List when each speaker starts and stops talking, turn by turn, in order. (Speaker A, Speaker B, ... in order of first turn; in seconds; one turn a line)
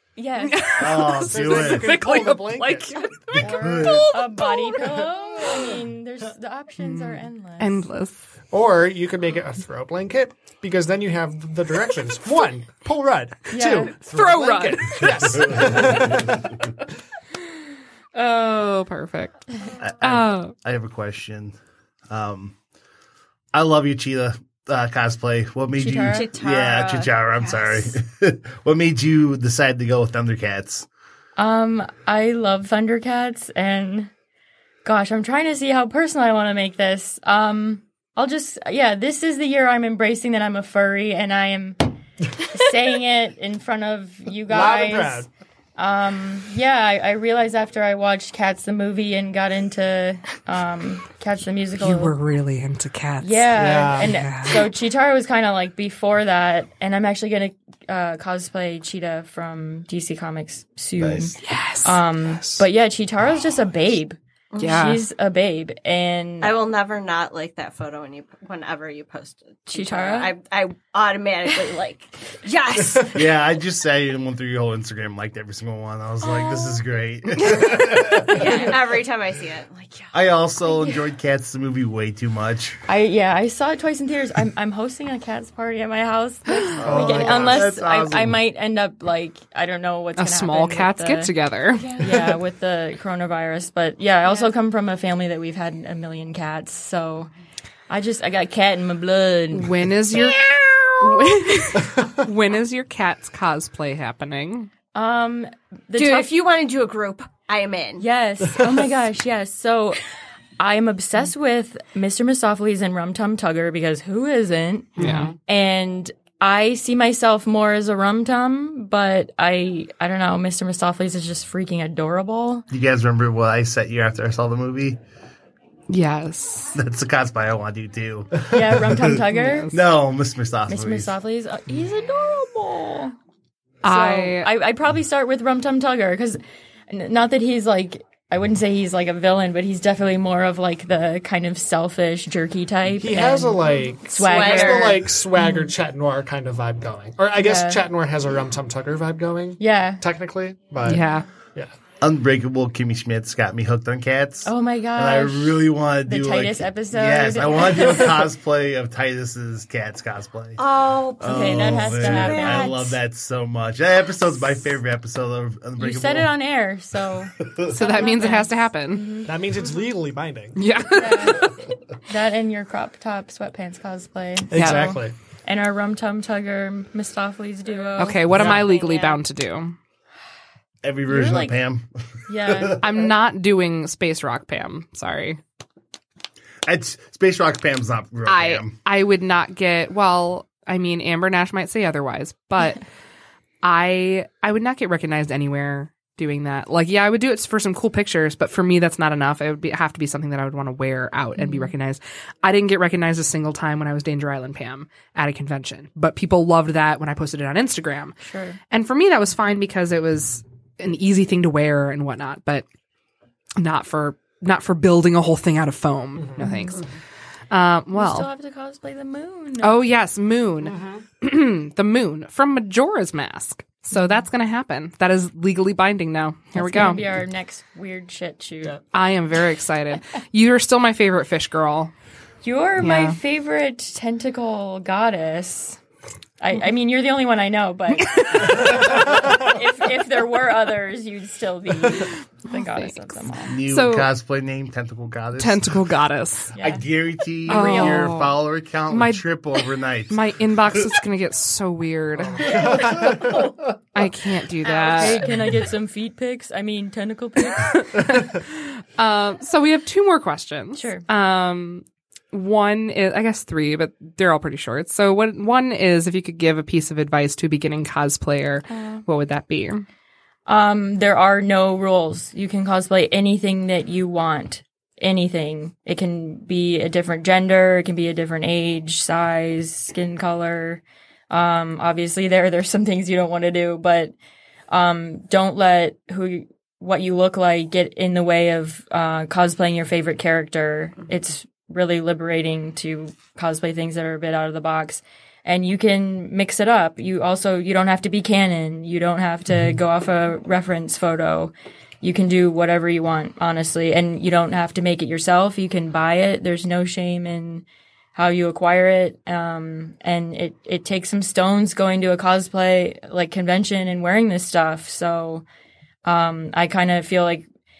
Speaker A: 0.2-0.8
Speaker B: 0.4-5.7
Speaker C: 0.8-2.0
Speaker D: 1.1-3.0
Speaker C: 3.4-4.1
Speaker A: 3.4-7.8
Speaker B: 6.8-8.2
Speaker D: 8.5-16.6
Speaker A: 13.5-13.9
Speaker B: 13.9-15.8
Speaker B: 18.1-19.5
Speaker C: 19.8-21.6
Speaker B: 20.0-20.5
Speaker C: 22.1-22.6
Speaker C: 23.5-30.9
Speaker A: 25.8-26.3
Speaker E: 26.0-28.0
Speaker A: 31.4-34.1
Speaker A: 34.9-45.3
Speaker D: 44.4-45.3
Speaker A: 45.8-52.1
Speaker B: 51.8-54.7
Speaker A: 53.2-66.5
Speaker D: 53.5-54.1
Speaker C: 61.0-61.4
Speaker B: 61.4-62.0
Speaker E: 64.5-64.9
Speaker B: 64.6-65.0
Speaker E: 66.4-73.3
Speaker A: 69.7-70.3
Speaker C: 73.1-78.7
Speaker E: 76.3-76.8
Speaker E: 77.5-80.2
Speaker A: 78.3-78.7
Speaker C: 80.1-82.8
Speaker A: 82.9-91.3
Speaker C: 86.8-88.4
Speaker D: 86.8-87.6
Speaker B: 90.2-92.0
Speaker E: 91.7-92.2
Speaker A: 92.0-97.3
Speaker A: 97.9-99.8
Speaker B: 99.5-100.4
Speaker B: 101.0-104.7
Speaker A: 104.9-106.3
Speaker E: 106.0-108.0
Speaker A: 108.0-110.0
Speaker A: 110.6-122.7
Speaker D: 115.0-115.3
Speaker B: 115.0-115.3
Speaker C: 122.7-125.0
Speaker B: 125.9-126.8
Speaker C: 126.8-129.2
Speaker A: 128.5-129.7
Speaker B: 129.3-129.8
Speaker C: 129.7-131.1
Speaker A: 130.7-133.2
Speaker B: 133.8-134.5
Speaker A: 133.8-136.4
Speaker A: 136.9-145.7
Speaker D: 143.0-151.0
Speaker E: 144.1-145.1
Speaker A: 147.4-147.8
Speaker A: 149.6-150.0
Speaker B: 150.8-151.2
Speaker C: 152.0-166.3
Speaker A: 154.4-158.3
Speaker E: 160.6-162.9
Speaker A: 161.2-162.9
Speaker A: 165.8-169.3
Speaker B: 167.7-169.1
Speaker D: 169.2-170.6
Speaker B: 170.6-171.5
Speaker A: 170.9-179.2
Speaker D: 174.5-175.1
Speaker B: 174.5-174.9
Speaker B: 178.0-179.8
Speaker D: 178.3-178.7
Speaker C: 180.8-183.0
Speaker A: 181.1-181.6
Speaker A: 182.3-182.8
Speaker B: 182.8-185.4
Speaker C: 186.7-188.8
Speaker B: 188.3-192.8
Speaker B: 193.6-208.2
Speaker A: 201.4-201.7
Speaker A: 208.2-208.6
Speaker B: 208.7-212.7
Speaker B: 213.6-216.8
Speaker D: 216.2-216.5
Speaker A: 216.4-216.8
Speaker B: 217.5-218.3
Speaker A: 217.9-219.8
Speaker B: 219.6-227.1
Speaker D: 220.6-221.0
Speaker A: 223.9-224.2
Speaker A: 226.6-228.8
Speaker B: 228.9-231.9
Speaker A: 232.4-235.8
Speaker B: 232.8-233.2
Speaker A: 236.4-243.5
Speaker B: 238.1-238.5
Speaker D: 238.6-239.3
Speaker B: 242.5-244.1
Speaker C: 243.5-245.8
Speaker B: 245.4-246.5
Speaker A: 246.5-246.8
Speaker C: 246.6-250.2
Speaker A: 247.5-248.1
Speaker B: 247.5-253.4
Speaker D: 252.2-253.5
Speaker C: 252.8-253.3
Speaker B: 253.9-255.3
Speaker E: 254.7-255.2
Speaker A: 254.7-257.9
Speaker B: 257.6-269.9
Speaker A: 260.8-261.1
Speaker A: 268.7-269.0
Speaker A: 270.5-284.1
Speaker A: 284.7-315.4
Speaker A: 316.1-317.5